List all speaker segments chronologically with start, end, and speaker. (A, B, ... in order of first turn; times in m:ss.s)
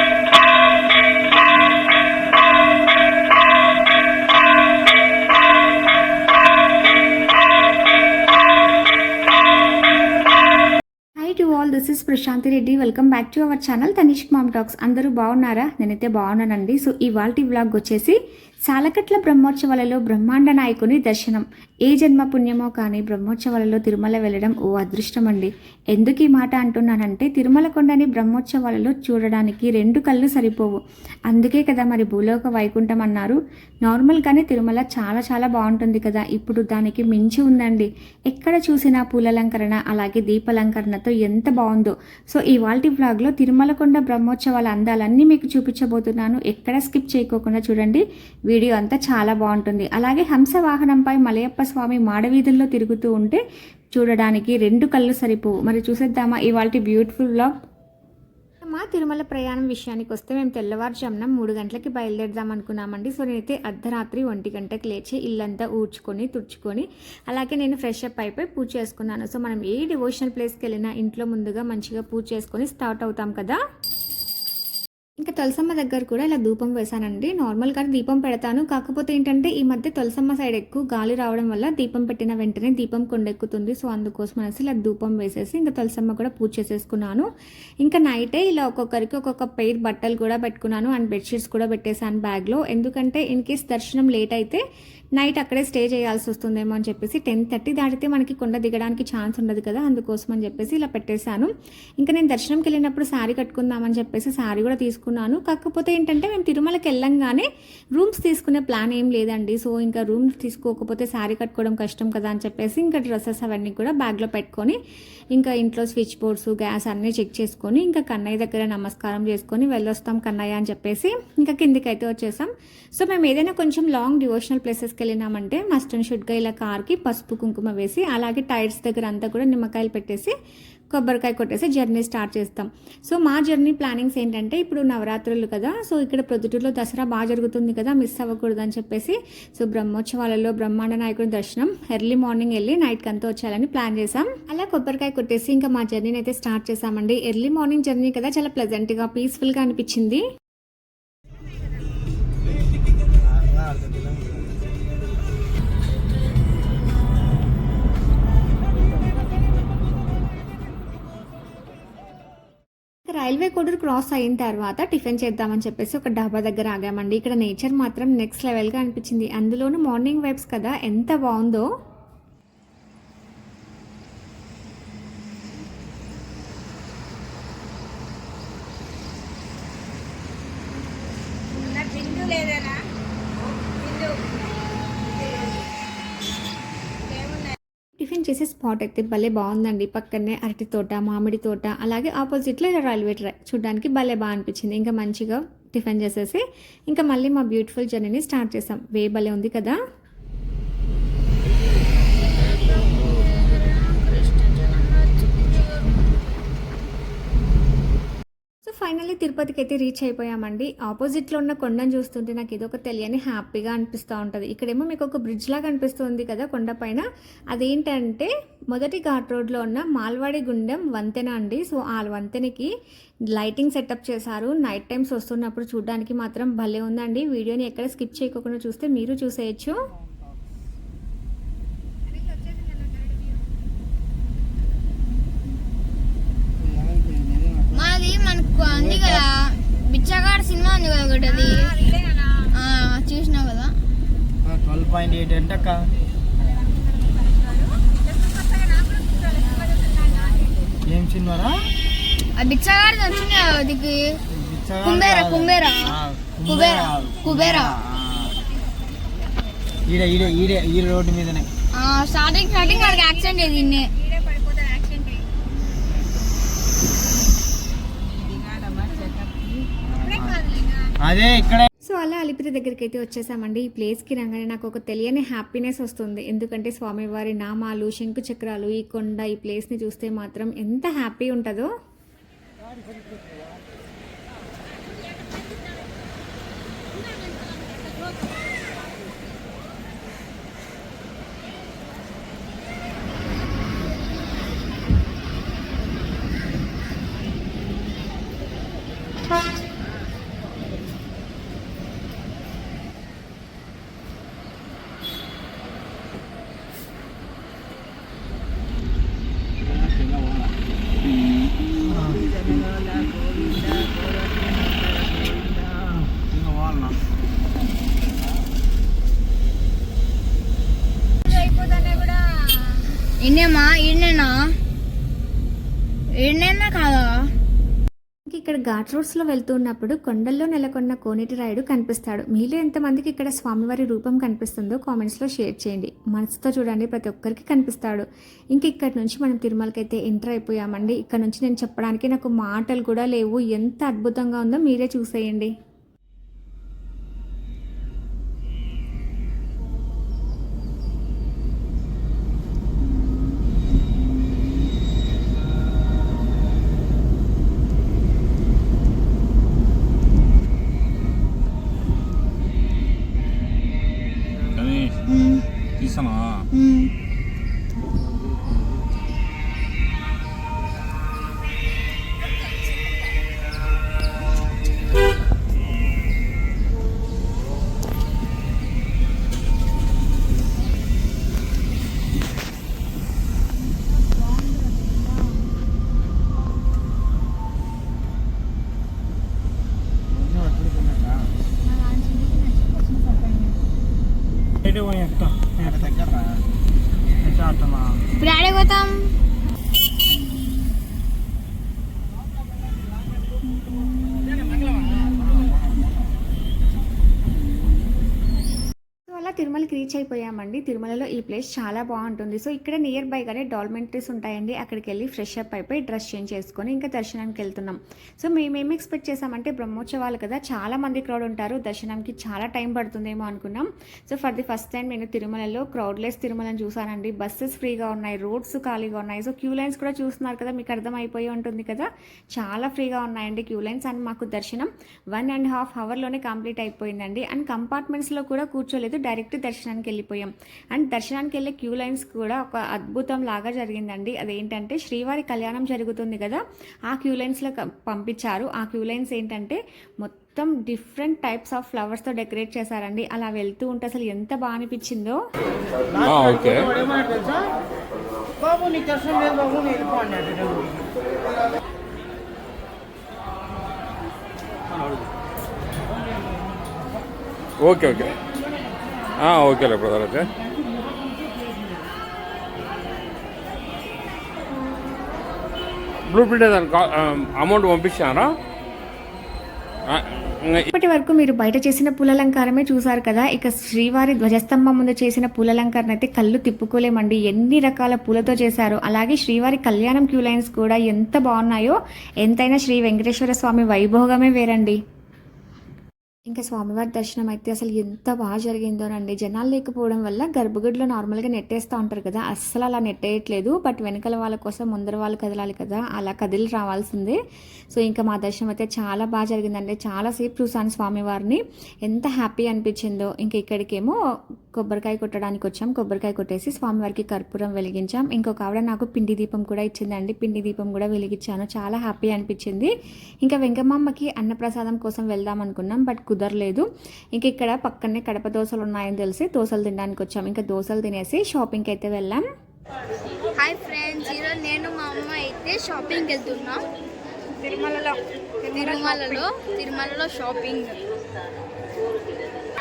0:11.2-0:18.2 A
0:18.7-0:30.8 A
0:31.3-0:53.4 A
0:53.9-0:57.5 A
0:58.6-1:13.6 A
1:15.2-1:27.3 A
1:27.8-1:34.6 A
1:35.2-1:54.8 A
1:55.3-2:10.3 A
2:10.9-2:30.2 A
2:33.2-2:34.6 B
2:43.1-2:51.7 A
3:01.6-3:02.8 C
3:03.8-3:04.1 C
3:07.1-3:07.6 C
3:08.0-3:19.8 A
3:22.4-3:25.8 C
3:28.6-3:42.7 A
3:43.3-3:49.8 A
3:52.1-3:53.5 D
3:56.8-3:57.7 B
3:57.7-4:01.7 C
4:01.2-4:02.5 D
4:02.5-4:03.8 C
4:04.4-4:05.8 B
4:06.4-4:10.7 D
4:10.9-4:11.5 B
4:12.4-4:14.2 C
4:14.3-4:18.3 B
4:14.8-4:17.8 C
4:18.3-4:19.7 D
4:19.8-4:21.5 B
4:21.8-4:23.9 C
4:22.5-4:25.3 D
4:28.3-4:29.4 D
4:30.0-4:30.3 B
4:30.0-4:30.9 D
4:31.0-4:31.7 B
4:31.8-4:41.7 A
5:09.7-5:10.5 B
5:11.9-5:12.2 B
5:14.3-5:15.6 B
5:16.2-5:16.9 B
5:21.2-5:22.9 D
5:23.2-5:24.3 C
5:26.2-5:27.2 C
5:28.3-5:45.5 A
6:04.5-6:05.0 E
6:05.8-6:06.5 E
6:06.6-6:06.9 C
6:23.5-6:25.5 D
6:30.2-6:31.1 B
6:31.6-6:33.6 D
6:34.6-6:36.2 B
6:37.2-6:38.0 B
6:38.2-6:39.1 C
6:49.1-7:35.2 A
7:36.0-7:36.7 E
7:36.8-7:37.4 B
7:38.4-7:40.7 B
7:47.6-7:48.2 E
7:49.2-7:50.3 E
7:56.1-7:58.4 E
7:59.9-8:00.7 E
8:00.7-8:14.8 A
8:16.3-8:27.2 A
8:27.7-8:34.0 A
8:34.5-8:42.7 A
8:43.2-8:52.2 A
8:53.4-8:56.6 C
8:57.4-8:59.2 D
8:58.5-9:00.8 C